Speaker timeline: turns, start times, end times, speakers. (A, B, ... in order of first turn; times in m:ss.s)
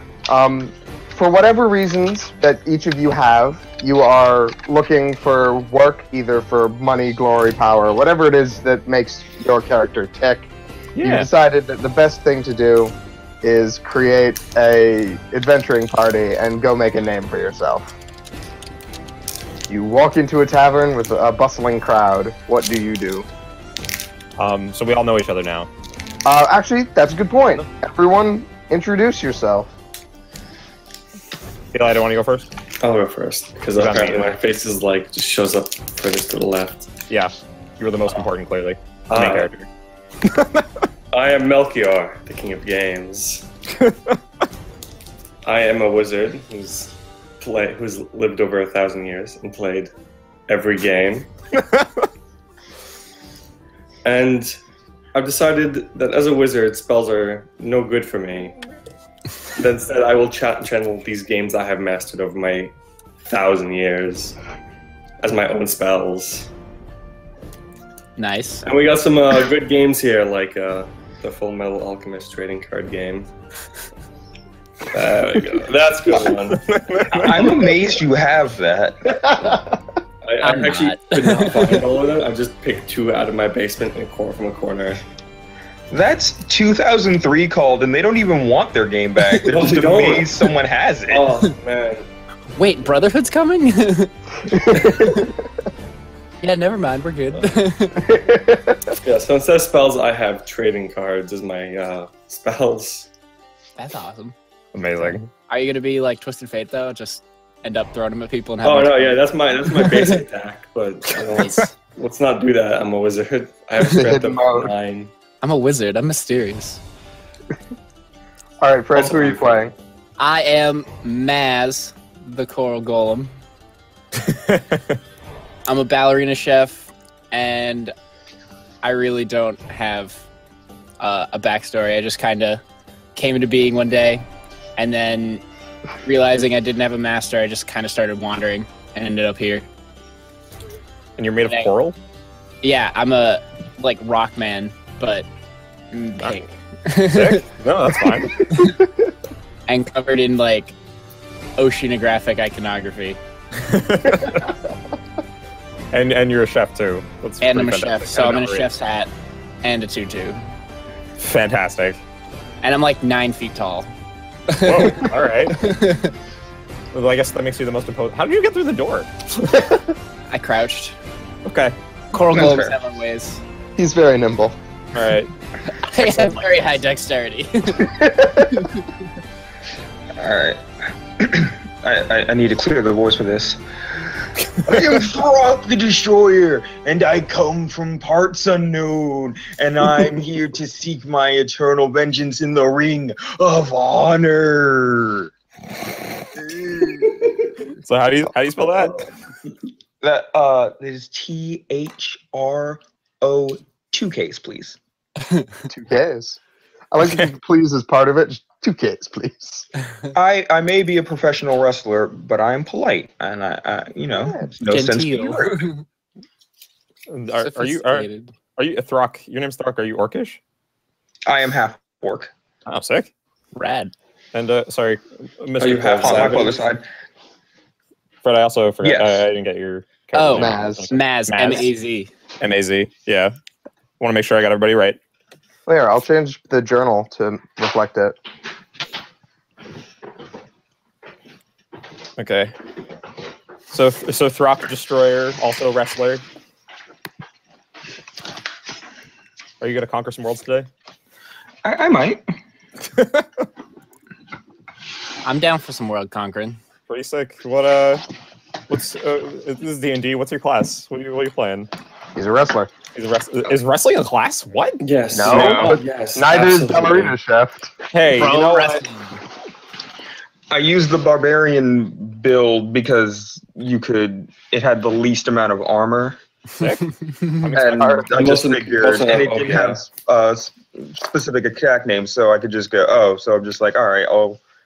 0:00.3-0:10.5 A
0:10.9-0:11.3 B
0:11.0-0:17.9 A
0:19.7-0:23.3 A
0:24.4-0:25.7 B
0:26.2-0:29.7 A
0:31.7-0:32.5 B
0:32.8-0:36.9 C
0:33.7-0:34.3 B
0:37.1-0:39.5 B
0:39.1-0:39.7 C
0:40.2-0:40.8 B
0:41.1-0:43.5 C
0:43.8-0:44.2 B
0:45.4-0:49.9 C
0:50.5-0:51.3 C
0:54.0-0:54.6 C
0:55.1-0:58.6 C
0:59.6-1:02.7 C
1:03.3-1:04.4 C
1:05.2-1:06.5 C
1:08.2-1:08.6 D
1:08.6-1:13.3 C
1:14.9-1:16.6 C
1:16.5-1:17.7 B
1:17.2-1:19.4 E
1:19.1-1:19.8 A
1:20.2-1:25.0 C
1:20.4-1:21.8 D
1:25.9-1:31.4 E
1:29.4-1:30.3 C
1:31.1-1:32.1 C
1:32.6-1:34.1 D
1:34.5-1:35.3 A
1:34.7-1:35.0 C
1:36.4-1:38.0 D
1:38.1-1:38.9 A
1:39.0-1:43.1 C
1:43.8-1:44.3 D
1:44.7-1:45.3 B
1:45.5-1:49.2 D
1:48.6-1:55.1 C
1:49.8-1:50.0 D
1:53.9-1:54.7 A
1:55.4-1:56.8 D
1:58.6-1:59.7 A
1:58.9-1:59.7 C
2:00.2-2:03.3 D
2:04.2-2:05.0 B
2:05.6-2:07.9 D
2:08.8-2:10.2 D
2:11.0-2:12.6 D
2:13.1-2:14.2 D
2:14.8-2:15.4 D
2:16.0-2:19.6 D
2:21.2-2:22.0 B
2:21.4-2:21.7 D
2:22.6-2:25.3 D
2:25.9-2:27.4 D
2:27.1-2:28.7 B
2:28.5-2:28.8 D
2:29.7-2:30.7 D
2:31.6-2:33.2 D
2:33.5-2:34.5 B
2:35.9-2:38.7 B
2:37.4-2:39.1 D
2:39.6-2:40.4 D
2:41.2-2:42.0 B
2:42.6-2:43.9 D
2:44.5-2:46.1 D
2:44.6-2:45.7 B
2:46.9-2:49.7 B
2:50.3-2:51.0 D
2:51.4-2:51.8 B
2:52.1-2:53.4 D
2:52.3-2:52.7 E
2:53.8-2:54.6 A
2:54.9-2:55.3 B
2:55.7-2:57.9 D
2:55.9-2:56.4 B
2:57.8-2:58.6 A
3:00.2-3:00.6 E
3:01.2-3:03.6 E
3:04.6-3:15.3 E
3:16.3-3:17.3 E
3:17.8-3:19.0 B
3:20.0-3:24.8 E
3:25.7-3:26.4 A
3:26.9-3:29.7 A
3:30.1-3:35.7 E
3:34.1-3:34.5 A
3:34.7-3:35.8 D
3:37.1-3:40.4 B
3:37.4-3:38.3 D
3:41.2-3:42.3 E
3:42.7-3:43.1 B
3:43.5-3:43.9 D
3:44.3-3:46.5 B
3:45.6-3:46.6 C
3:46.0-3:46.8 E
3:48.2-3:51.7 B
3:48.8-3:49.2 E
3:50.1-3:52.1 D
3:50.3-3:50.9 A
3:52.4-3:53.3 B
3:54.0-3:55.0 B
3:55.6-3:58.2 A
4:02.2-4:02.5 B
4:03.7-4:06.2 B
4:09.6-4:10.7 B
4:11.6-4:12.2 E
4:12.9-4:13.4 B
4:15.2-4:16.6 D
4:16.9-4:18.0 B
4:18.7-4:21.7 B
4:22.1-4:22.7 A
4:22.9-4:25.7 B
4:24.8-4:27.2 C
4:25.1-4:27.7 A
4:25.3-4:25.7 E
4:27.9-4:28.8 B
4:28.1-4:29.2 D
4:30.5-4:36.2 E
4:36.6-4:36.9 B
4:37.4-4:38.0 B
4:37.4-4:44.4 E
4:37.5-4:38.4 A
4:38.1-4:39.8 C